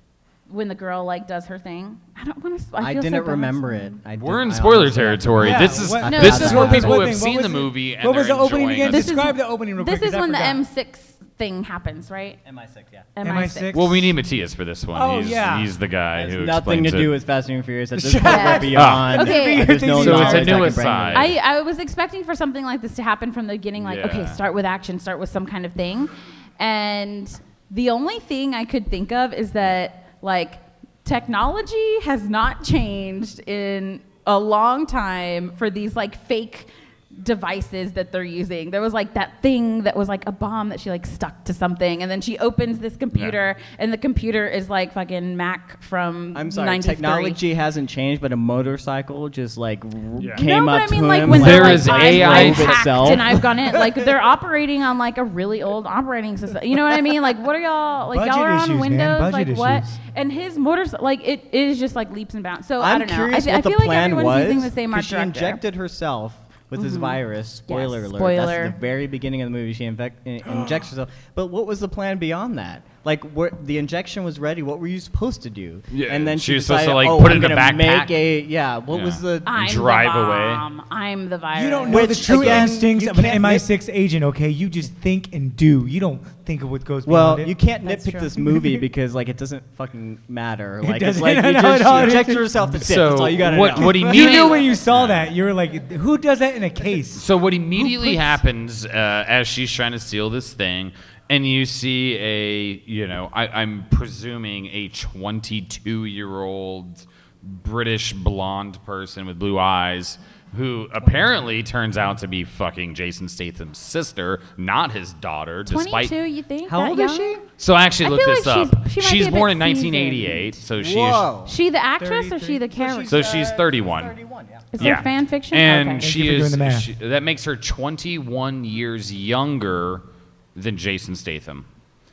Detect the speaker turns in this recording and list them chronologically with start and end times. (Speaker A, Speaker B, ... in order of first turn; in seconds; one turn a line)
Speaker A: 0.5-4.0
Speaker B: 2.8-7.2
Speaker C: 4.2-9.1
Speaker D: 5.4-10.6
Speaker A: 6.0-6.9
Speaker A: 8.8-12.4
Speaker B: 12.4-13.1
Speaker A: 13.2-13.7
Speaker D: 13.2-14.1
Speaker C: 13.7-17.1
Speaker D: 14.9-15.7
Speaker B: 16.1-21.3
Speaker D: 17.9-20.8
Speaker A: 18.2-19.8
Speaker C: 18.7-19.1
Speaker C: 19.9-21.3
Speaker A: 21.1-47.4
Speaker C: 23.8-24.4
Speaker B: 46.3-54.1
Speaker A: 50.3-65.6
Speaker C: 51.2-53.4
Speaker D: 58.1-60.0
Speaker B: 62.8-79.6
Speaker A: 66.8-68.7
Speaker C: 75.9-78.1
Speaker C: 78.9-80.6
Speaker A: 79.5-82.5
Speaker D: 81.5-87.5
Speaker B: 81.9-83.7
Speaker C: 82.3-82.7
Speaker B: 87.0-94.6
Speaker A: 87.8-88.3
Speaker D: 88.4-88.8
Speaker D: 90.8-92.8
Speaker C: 92.7-95.3
Speaker D: 93.7-97.2
Speaker C: 97.1-116.1
Speaker D: 97.8-98.4
Speaker A: 115.7-117.3
Speaker D: 116.7-117.4
Speaker C: 117.6-121.3
Speaker A: 118.0-120.6
Speaker B: 120.8-121.5
Speaker A: 121.5-123.3
Speaker D: 122.0-122.8
Speaker B: 122.8-124.8
Speaker C: 123.1-124.1
Speaker A: 124.7-126.1
Speaker C: 124.8-130.0
Speaker D: 126.0-126.9
Speaker C: 130.5-131.6